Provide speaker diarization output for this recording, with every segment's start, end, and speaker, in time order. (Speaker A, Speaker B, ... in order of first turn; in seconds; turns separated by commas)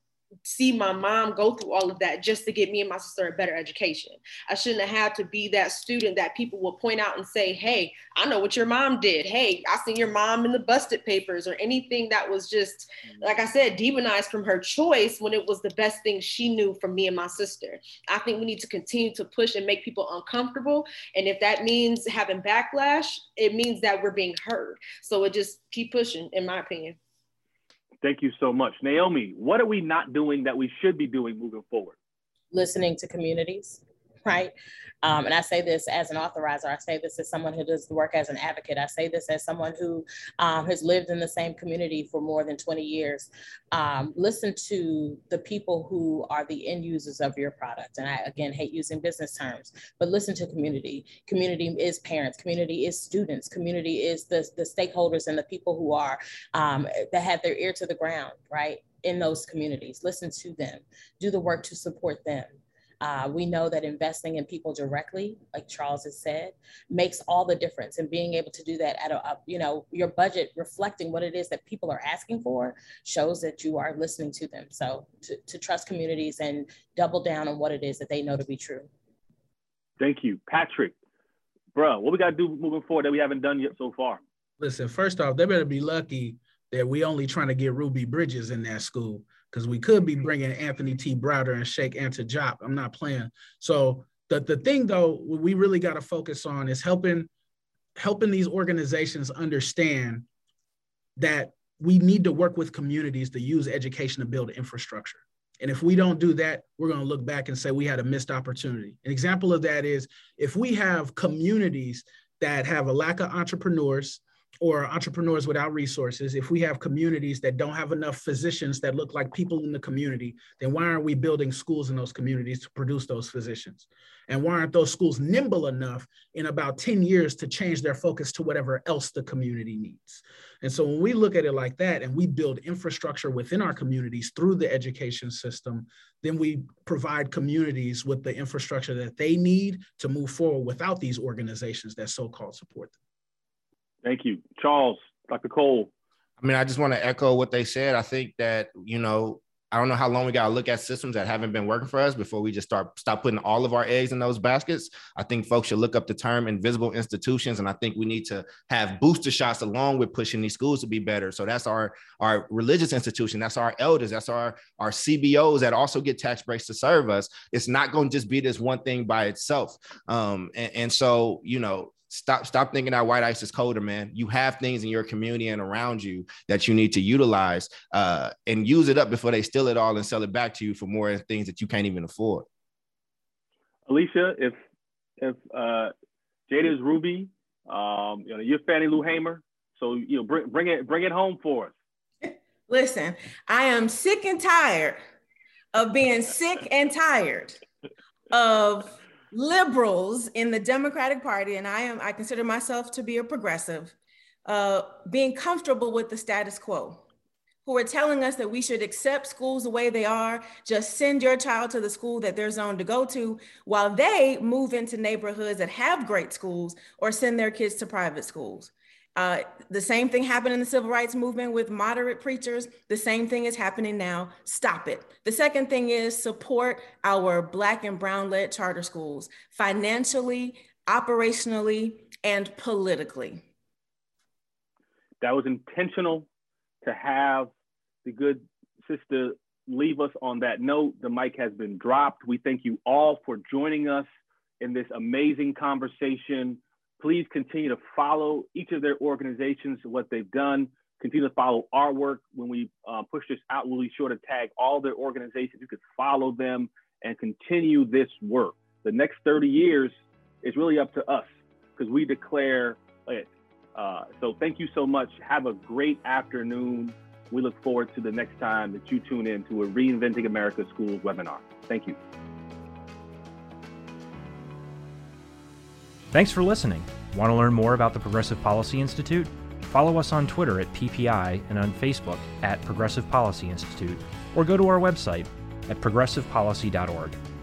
Speaker A: 0.5-27.0, Speaker B: 28.0-32.0, Speaker C: 32.5-62.5, Speaker C: 63.0-78.9, Speaker B: 80.0-80.9, Speaker B: 81.7-84.2, Speaker D: 84.6-97.3, Speaker D: 98.0-100.2, Speaker D: 101.2-142.9, Speaker B: 144.0-145.9, Speaker E: 146.4-182.4, Speaker B: 183.9-184.6, Speaker B: 185.2-185.9, Speaker B: 186.5-191.7, Speaker F: 192.2-195.0, Speaker F: 195.7-197.6, Speaker F: 198.3-203.9, Speaker F: 204.4-207.0, Speaker F: 207.7-233.4, Speaker B: 235.2-236.3, Speaker B: 236.8-237.5, Speaker B: 238.0-244.1, Speaker B: 244.6-272.0, Speaker G: 276.1-287.2